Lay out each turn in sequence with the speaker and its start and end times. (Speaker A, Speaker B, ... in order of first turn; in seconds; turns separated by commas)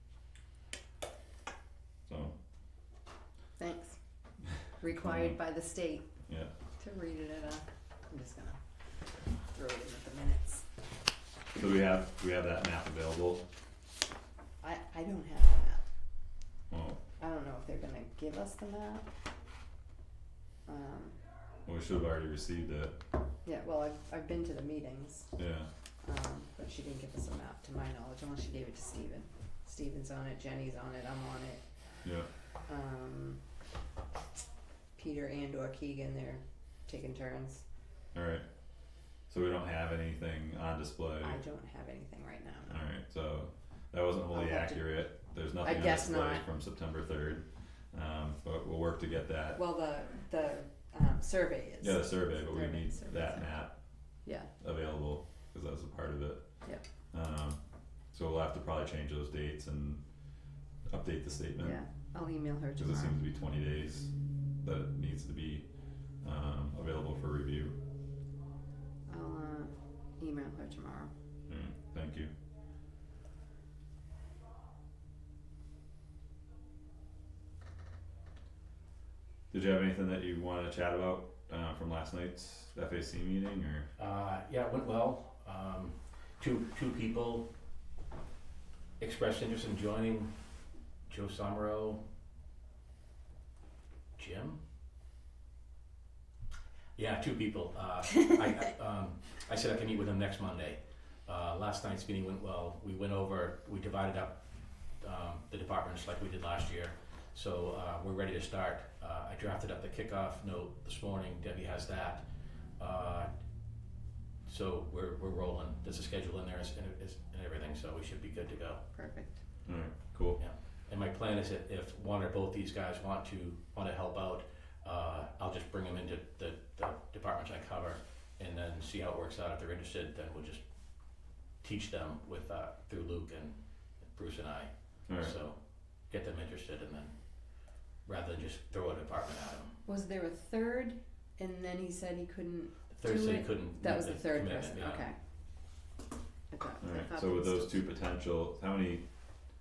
Speaker A: 2.1-2.3, Speaker B: 3.6-4.0, Speaker B: 4.8-6.1, Speaker A: 4.9-5.3, Speaker B: 6.8-8.6, Speaker B: 9.5-10.7, Speaker A: 11.6-13.4, Speaker B: 14.6-15.8, Speaker A: 16.7-17.0, Speaker B: 17.2-19.1, Speaker B: 20.7-21.2, Speaker A: 21.7-23.0, Speaker B: 23.4-25.4, Speaker A: 25.4-25.7, Speaker B: 26.0-31.6, Speaker B: 32.7-33.4, Speaker B: 35.0-37.6, Speaker A: 38.1-38.5, Speaker A: 39.3-41.4, Speaker B: 41.2-42.8, Speaker A: 42.7-49.6, Speaker B: 44.3-45.0, Speaker B: 45.6-46.5, Speaker B: 49.6-53.6, Speaker A: 51.8-53.7, Speaker B: 54.2-54.5, Speaker A: 54.6-56.4, Speaker A: 57.1-57.6, Speaker A: 58.1-60.0, Speaker A: 60.9-61.8, Speaker B: 61.6-63.2, Speaker A: 62.8-64.1, Speaker A: 64.6-65.7, Speaker A: 66.2-67.8, Speaker B: 69.1-71.1, Speaker A: 71.5-72.3, Speaker A: 79.5-83.9, Speaker C: 84.0-87.5, Speaker C: 89.0-90.3, Speaker C: 91.1-92.0, Speaker C: 94.2-94.6, Speaker C: 97.0-104.4, Speaker C: 105.0-112.2, Speaker C: 112.8-113.3, Speaker C: 114.5-118.8, Speaker B: 118.9-119.4, Speaker A: 119.7-120.4, Speaker C: 120.4-130.6, Speaker C: 131.6-137.1, Speaker A: 135.1-135.3, Speaker C: 138.1-139.8, Speaker B: 139.8-145.2, Speaker C: 142.9-145.1, Speaker B: 146.5-147.7, Speaker A: 146.8-149.1